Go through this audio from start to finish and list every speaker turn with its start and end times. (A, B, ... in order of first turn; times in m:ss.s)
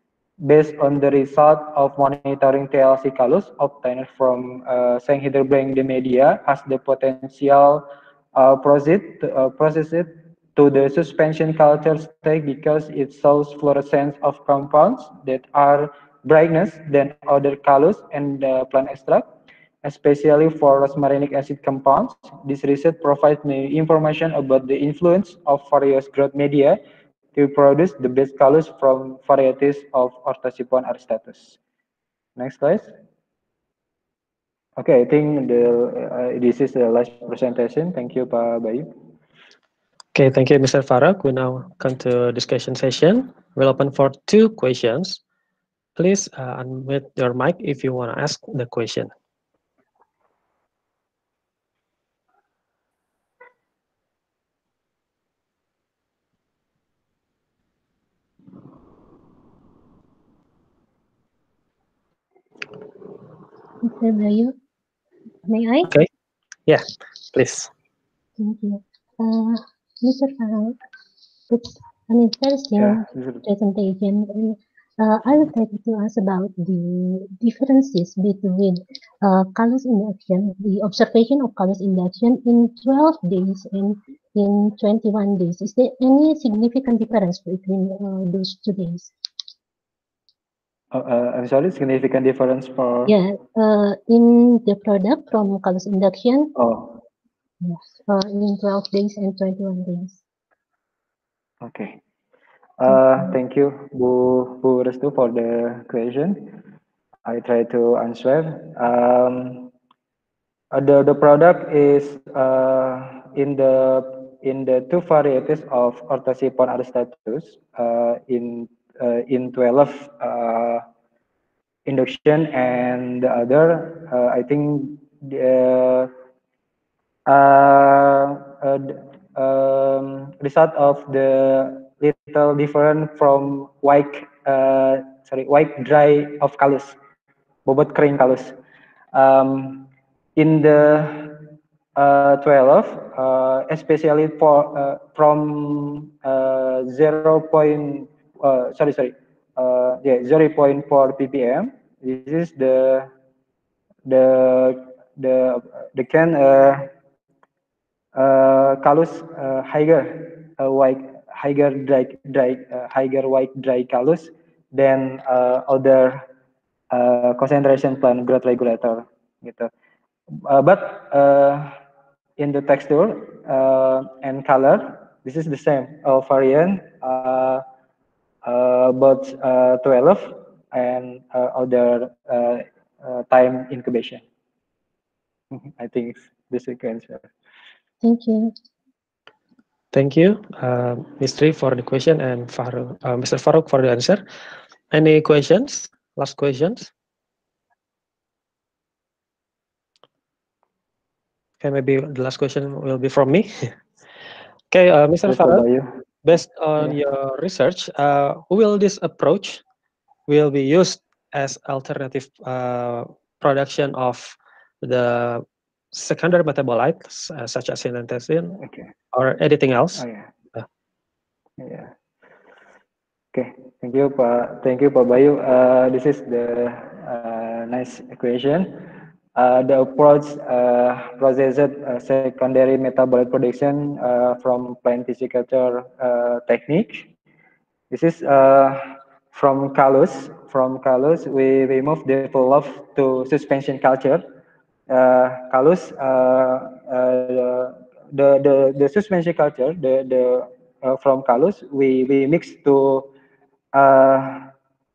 0:00.4-0:19.2 A
0:19.8-0:26.8 A
0:27.3-0:31.6 A
0:32.4-0:32.9 A
0:34.8-0:38.9 A
0:40.1-0:45.2 B
0:46.0-0:49.1 B
1:03.8-1:04.5 C
1:05.4-1:05.9 C
1:06.7-1:07.7 B
1:08.4-1:10.8 C
1:11.5-1:29.1 C
1:12.8-1:13.4 A
1:30.9-1:33.1 A
1:33.0-1:36.5 C
1:36.6-1:36.9 A
1:37.6-1:40.2 C
1:41.6-1:42.0 A
1:42.8-1:46.5 A
1:47.2-1:49.7 A
1:50.7-2:00.8 A
2:01.8-2:06.1 A
2:07.3-2:17.0 A
2:17.6-2:18.6 A
2:19.1-2:33.1 A
2:34.0-2:36.9 A
2:38.2-2:46.2 A
2:46.9-2:49.7 A
2:50.4-2:51.7 A
2:52.4-2:57.6 A
2:58.4-3:04.2 A
3:05.5-3:07.3 A
3:08.0-3:08.5 C
3:09.9-3:14.2 B
3:14.9-3:16.9 B
3:21.6-3:23.8 B
3:24.7-3:25.6 B
3:25.2-3:25.9 A
3:26.2-3:29.6 B
3:30.3-3:38.6 B
3:38.6-3:38.9 A
3:39.1-3:40.0 B
3:40.0-3:40.3 A
3:41.6-3:41.9 A
3:43.3-3:57.1 A
3:57.9-4:04.2 A
4:04.9-4:13.1 A
4:13.7-4:14.5 A